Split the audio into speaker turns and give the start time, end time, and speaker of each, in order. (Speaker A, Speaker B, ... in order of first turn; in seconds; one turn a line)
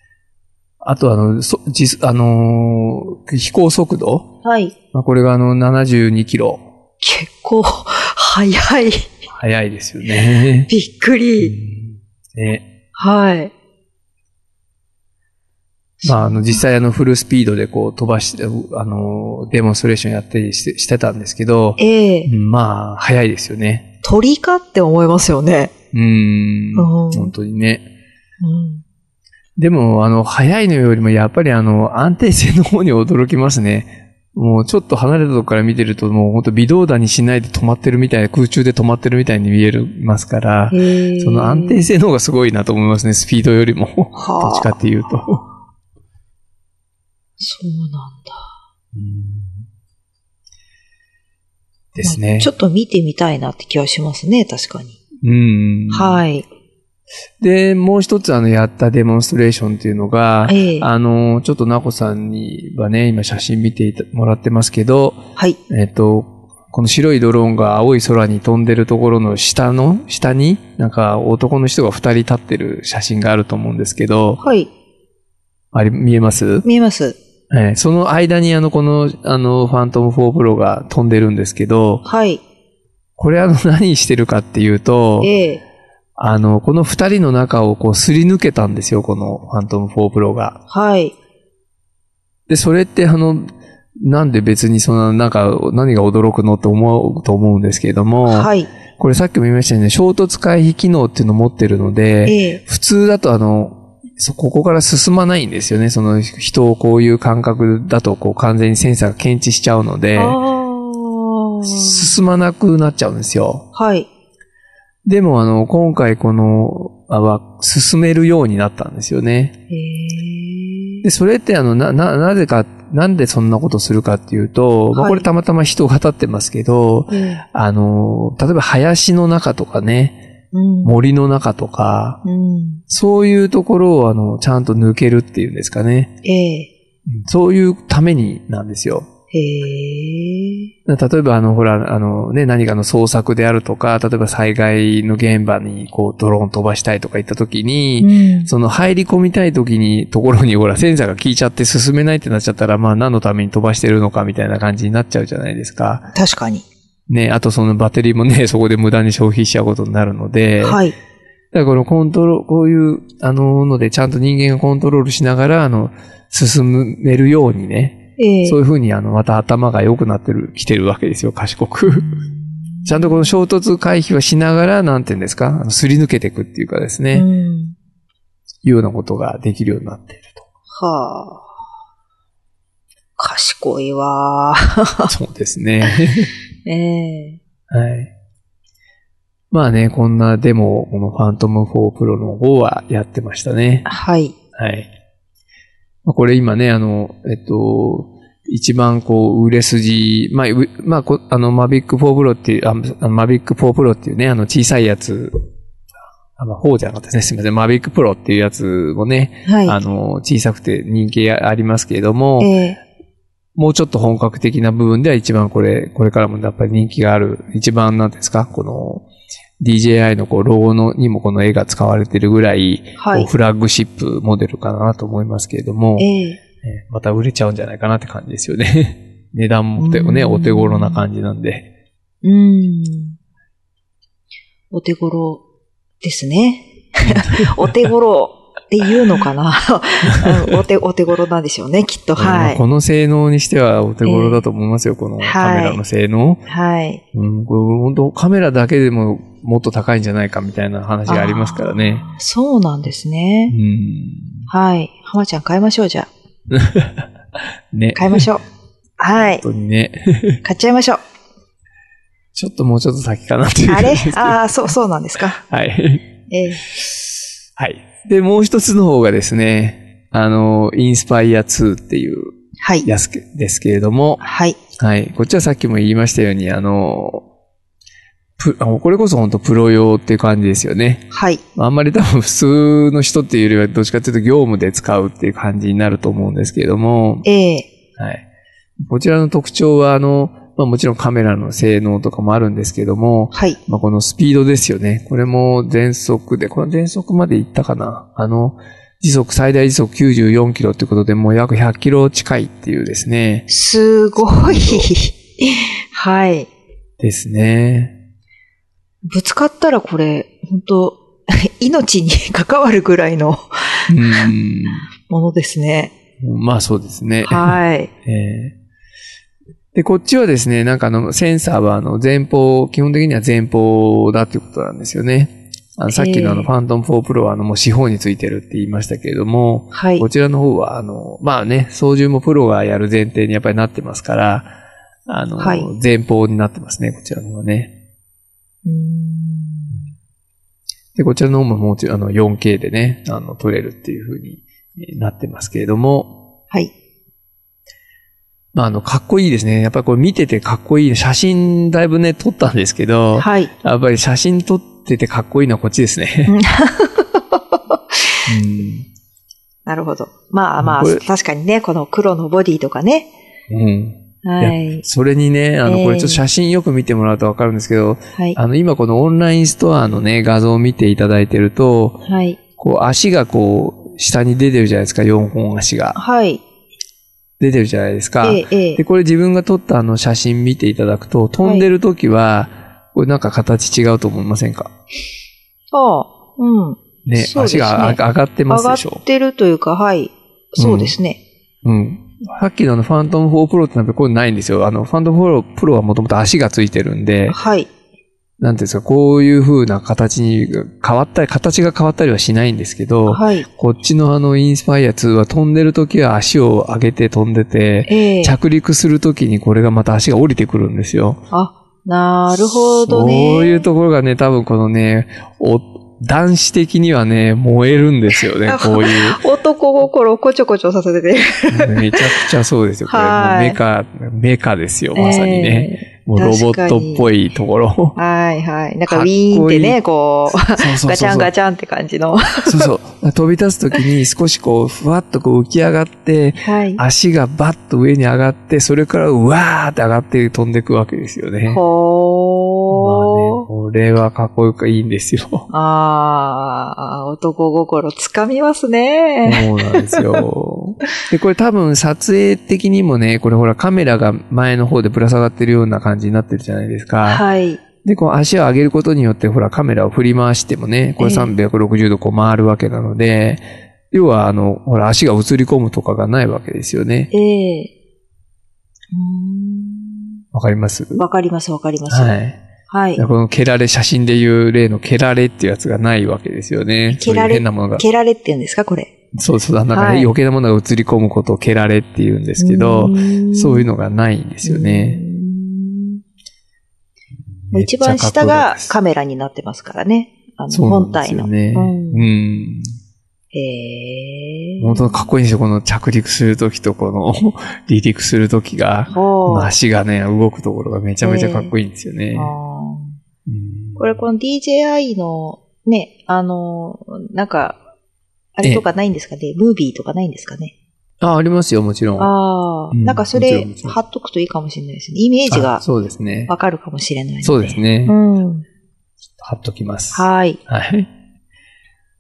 Speaker A: 0.8-4.3
Speaker B: 4.4-4.7
Speaker A: 4.9-6.7
Speaker B: 7.0-9.1
Speaker A: 9.3-10.7
Speaker B: 10.7-11.6
Speaker A: 11.4-12.7
Speaker B: 12.9-13.5
Speaker B: 16.0-16.6
Speaker A: 16.0-23.9
Speaker B: 21.8-22.3
Speaker B: 24.0-25.7
Speaker A: 25.9-27.9
Speaker B: 26.8-27.3
Speaker B: 28.4-28.8
Speaker A: 29.6-45.5
Speaker B: 40.7-41.8
Speaker B: 44.1-44.7
Speaker B: 47.4-48.5
Speaker A: 48.9-49.7
Speaker A: 51.9-52.5
Speaker B: 52.0-55.0
Speaker A: 55.2-56.2
Speaker B: 55.9-56.5
Speaker A: 57.4-74.4
Speaker B: 60.5-60.9
Speaker B: 74.4-74.7
Speaker A: 75.7-76.7
Speaker B: 76.6-77.2
Speaker A: 77.5-82.0
Speaker B: 82.0-82.4
Speaker A: 83.2-85.3
Speaker B: 85.2-85.6
Speaker A: 86.2-90.6
Speaker B: 90.7-91.1
Speaker A: 92.5-110.4
Speaker B: 98.3-98.7
Speaker B: 102.3-102.6
Speaker B: 110.2-112.1
Speaker A: 111.6-113.7
Speaker B: 113.8-114.1
Speaker A: 115.0-119.5
Speaker B: 119.7-121.0
Speaker A: 121.0-130.2
Speaker B: 124.9-125.3
Speaker B: 127.1-127.4
Speaker B: 130.5-131.0
Speaker A: 130.8-132.2
Speaker B: 132.2-132.8
Speaker A: 132.9-136.2
Speaker B: 136.2-136.7
Speaker A: 137.1-139.1
Speaker B: 139.3-140.7
Speaker A: 140.9-156.1
Speaker B: 148.0-148.5
Speaker B: 156.1-156.7
Speaker A: 157.1-160.8
Speaker B: 160.6-160.9
Speaker A: 161.5-172.2
Speaker B: 168.2-168.6
Speaker B: 171.9-173.2
Speaker A: 172.8-177.3
Speaker B: 177.1-177.8
Speaker A: 178.6-180.4
Speaker B: 180.7-181.5
Speaker B: 183.2-185.1
Speaker A: 185.1-186.3
Speaker B: 186.7-187.4
Speaker A: 187.7-188.1
Speaker A: 189.5-193.9
Speaker B: 193.9-194.3
Speaker A: 194.6-194.9
Speaker A: 196.1-205.3
Speaker A: 206.4-212.5
Speaker B: 209.4-209.8
Speaker B: 212.4-212.8
Speaker A: 213.6-219.1
Speaker A: 219.6-226.1
Speaker B: 223.0-223.3
Speaker B: 226.0-226.4
Speaker A: 226.6-231.7
Speaker B: 229.8-231.0
Speaker B: 232.2-233.2
Speaker B: 234.7-235.4
Speaker B: 236.0-242.6
Speaker A: 237.0-237.9
Speaker A: 240.1-240.6
Speaker A: 242.2-246.4
Speaker B: 244.1-244.4
Speaker B: 245.2-245.8
Speaker B: 246.5-247.0
Speaker A: 247.1-252.1
Speaker B: 251.1-253.6
Speaker A: 253.5-254.5
Speaker B: 254.5-256.1
Speaker A: 256.5-257.1
Speaker A: 257.7-258.3
Speaker B: 257.9-258.4
Speaker B: 259.0-259.4
Speaker A: 259.1-260.4
Speaker B: 260.4-261.0
Speaker A: 262.4-264.4
Speaker B: 263.7-265.4
Speaker A: 265.4-266.1
Speaker B: 266.3-266.6
Speaker A: 266.7-267.0
Speaker A: 267.6-274.2
Speaker B: 272.6-272.9
Speaker B: 274.2-274.6
Speaker A: 274.8-277.2
Speaker A: 278.4-287.3
Speaker B: 281.1-281.4
Speaker B: 287.2-287.7
Speaker A: 288.0-288.2
Speaker A: 288.9-303.5
Speaker B: 293.3-293.6
Speaker B: 303.5-306.5
Speaker A: 304.2-304.9
Speaker A: 307.0-308.0
Speaker B: 309.1-314.3
Speaker A: 313.9-314.9
Speaker B: 314.9-315.9
Speaker A: 316.2-318.6
Speaker B: 317.2-317.9
Speaker A: 319.7-334.5
Speaker B: 325.9-326.5
Speaker B: 329.7-330.1
Speaker A: 335.1-337.7
Speaker B: 335.4-335.7
Speaker B: 338.6-339.9
Speaker A: 340.9-346.2
Speaker A: 348.5-356.4
Speaker B: 353.2-353.5
Speaker B: 356.3-358.2
Speaker A: 358.3-358.9
Speaker B: 359.7-363.1
Speaker A: 360.6-361.0
Speaker A: 363.5-372.0
Speaker B: 364.2-364.8
Speaker B: 365.6-366.2
Speaker B: 372.1-372.4
Speaker A: 372.6-376.0
Speaker B: 376.0-376.4
Speaker A: 377.4-384.7
Speaker B: 378.2-378.8
Speaker B: 381.4-381.7
Speaker B: 385.7-388.0
Speaker A: 387.1-389.0
Speaker B: 388.5-391.2
Speaker A: 390.6-391.0
Speaker A: 391.6-397.4
Speaker B: 397.3-397.7
Speaker A: 398.4-411.2
Speaker B: 403.1-403.5
Speaker B: 407.9-408.4
Speaker B: 411.3-413.6
Speaker A: 412.6-419.2
Speaker B: 418.4-422.0
Speaker A: 421.5-428.0
Speaker B: 422.9-423.6
Speaker B: 424.9-427.1
Speaker B: 428.0-432.7
Speaker A: 428.9-429.8
Speaker A: 430.3-431.3
Speaker A: 432.5-441.6
Speaker B: 436.4-436.8
Speaker B: 441.5-443.5
Speaker A: 442.7-445.5
Speaker B: 445.5-450.0
Speaker A: 449.2-457.2
Speaker B: 457.1-457.6
Speaker A: 457.8-467.1
Speaker B: 461.0-461.3
Speaker B: 467.1-467.7
Speaker B: 468.9-470.2
Speaker A: 470.3-471.1
Speaker B: 471.0-472.1
Speaker A: 471.9-472.4
Speaker B: 472.7-473.0
Speaker A: 473.0-477.9
Speaker B: 476.9-478.9
Speaker A: 479.1-485.0
Speaker B: 479.7-480.1
Speaker B: 482.4-483.7
Speaker B: 484.4-486.0
Speaker A: 487.5-488.8
Speaker B: 487.5-492.1
Speaker A: 490.5-492.8
Speaker B: 493.3-495.1
Speaker A: 494.6-502.3
Speaker B: 498.9-499.5
Speaker B: 501.0-501.5
Speaker B: 502.1-503.0
Speaker A: 503.3-504.1
Speaker B: 503.8-507.6
Speaker B: 508.4-510.5
Speaker A: 511.0-512.1
Speaker B: 512.0-515.6
Speaker A: 512.7-513.8
Speaker A: 515.3-516.3
Speaker B: 516.3-518.5
Speaker A: 517.2-518.0
Speaker A: 519.2-520.9
Speaker B: 519.9-520.4